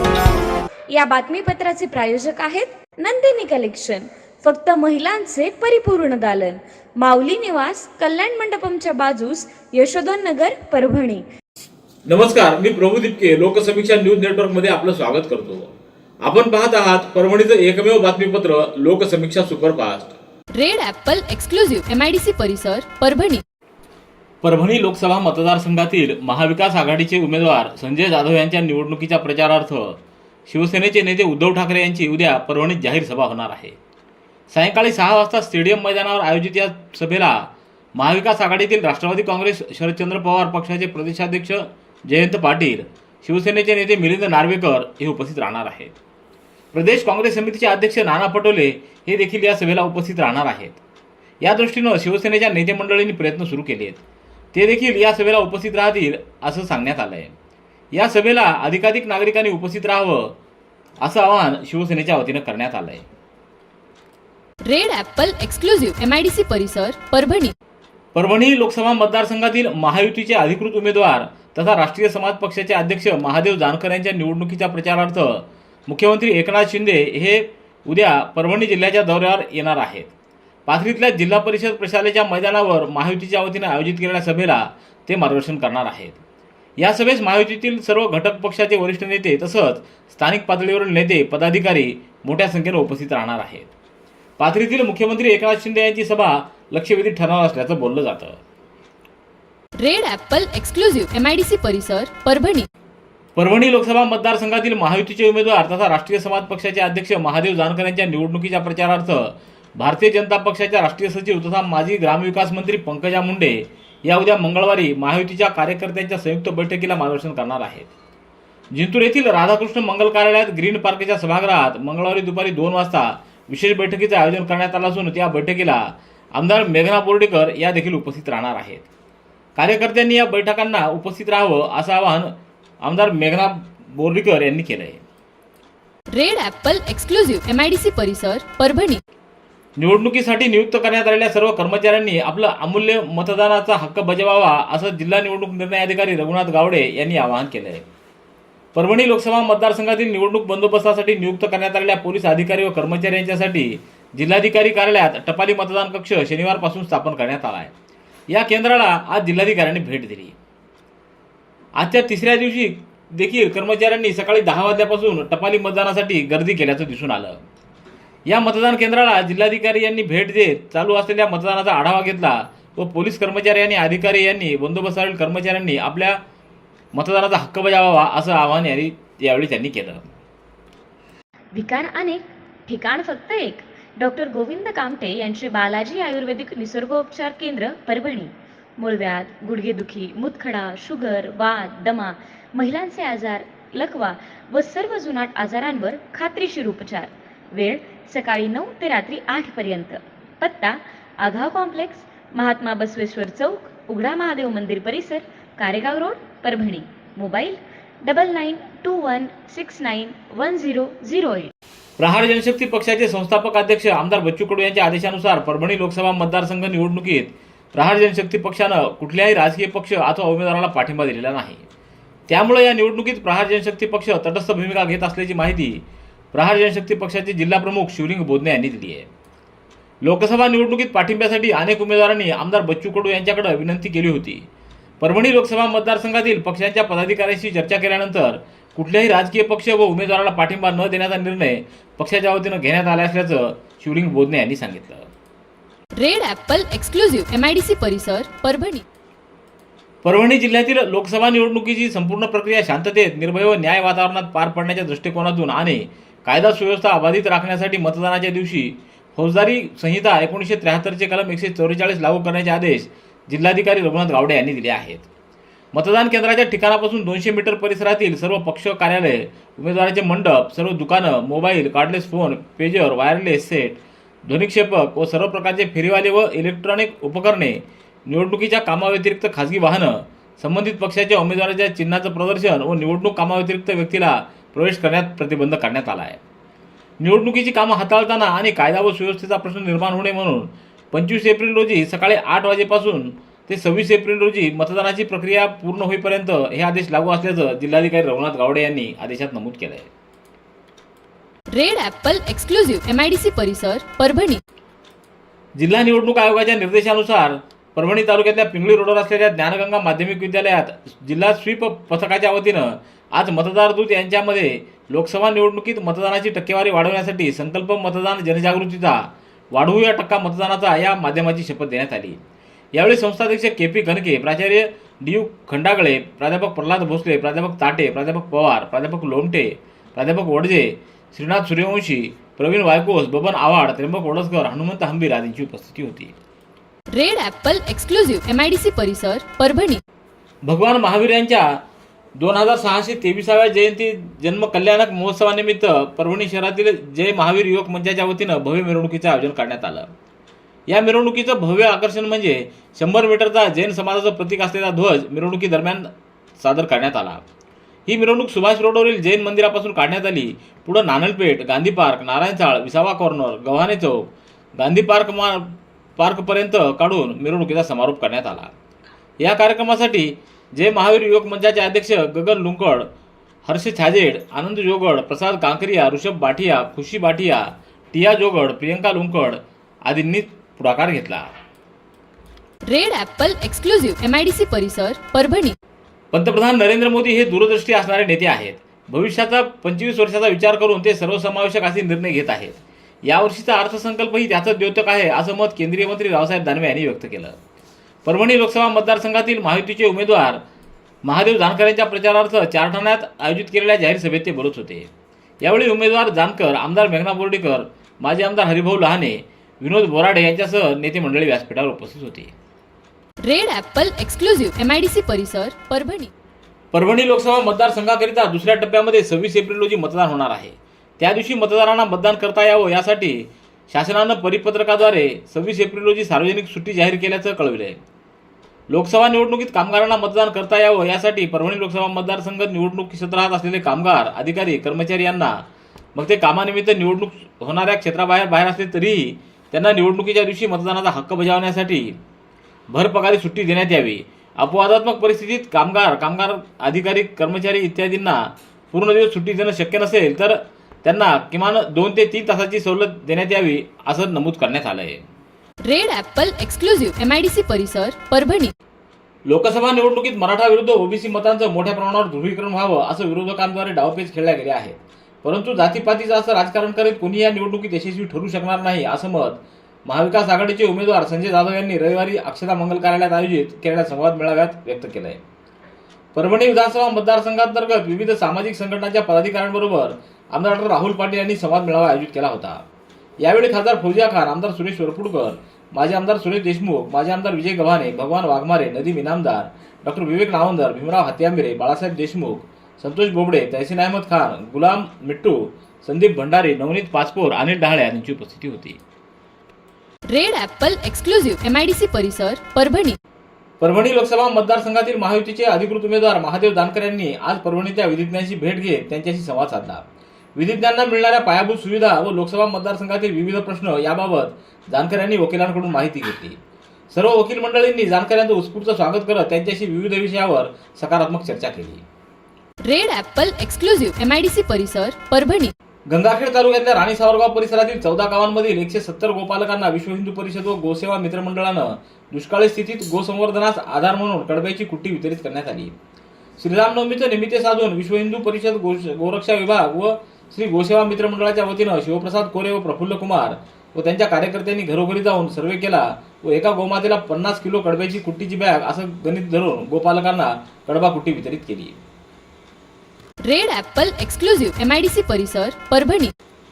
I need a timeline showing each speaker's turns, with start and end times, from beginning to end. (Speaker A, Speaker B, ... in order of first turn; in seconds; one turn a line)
Speaker A: 0.9-11.2
Speaker B: 12.1-20.2
Speaker C: 20.6-23.4
Speaker B: 24.4-33.8
Speaker B: 34.5-46.0
Speaker B: 46.7-50.8
Speaker B: 51.4-54.0
Speaker B: 54.5-57.3
Speaker B: 57.9-60.3
Speaker B: 61.0-63.0
Speaker C: 64.7-67.5
Speaker B: 68.1-80.1
Speaker B: 80.7-86.2
Speaker B: 86.8-93.7
Speaker B: 94.4-98.4
Speaker C: 99.8-102.7
Speaker B: 103.3-117.9
Speaker B: 118.7-128.9
Speaker B: 129.6-135.0
Speaker C: 136.1-139.0
Speaker B: 139.8-147.8
Speaker B: 148.7-157.7
Speaker B: 158.3-160.3
Speaker B: 161.8-167.4
Speaker B: 168.3-176.2
Speaker B: 176.9-180.0
Speaker A: 181.5-211.5
Speaker B: 212.0-221.6
Speaker B: 222.3-229.1
Speaker B: 230.0-234.5
Speaker B: 235.0-245.1
Speaker C: 246.0-248.8
Speaker B: 250.0-265.1
Speaker B: 265.7-286.2
Speaker B: 287.0-299.9
Speaker C: 301.5-304.4
Speaker B: 305.6-322.2
Speaker B: 322.8-336.1
Speaker C: 336.9-339.8
Speaker B: 340.4-341.6
Speaker B: 342.2-349.9
Speaker B: 350.7-357.2
Speaker B: 357.9-368.5
Speaker B: 369.2-372.9
Speaker B: 373.4-381.3
Speaker C: 382.7-385.6
Speaker B: 386.1-397.4
Speaker B: 398.0-400.4
Speaker B: 401.0-404.9
Speaker B: 405.4-412.3
Speaker C: 413.2-416.1
Speaker B: 416.7-427.8
Speaker B: 428.7-442.0
Speaker B: 442.7-455.1
Speaker C: 455.7-458.5
Speaker B: 459.2-475.2
Speaker B: 476.1-482.6
Speaker B: 483.2-498.8
Speaker C: 500.1-503.0
Speaker B: 503.6-509.8
Speaker B: 510.4-516.4
Speaker B: 516.9-521.8
Speaker C: 522.6-525.5
Speaker B: 525.9-535.7
Speaker B: 536.4-551.8
Speaker C: 553.3-556.1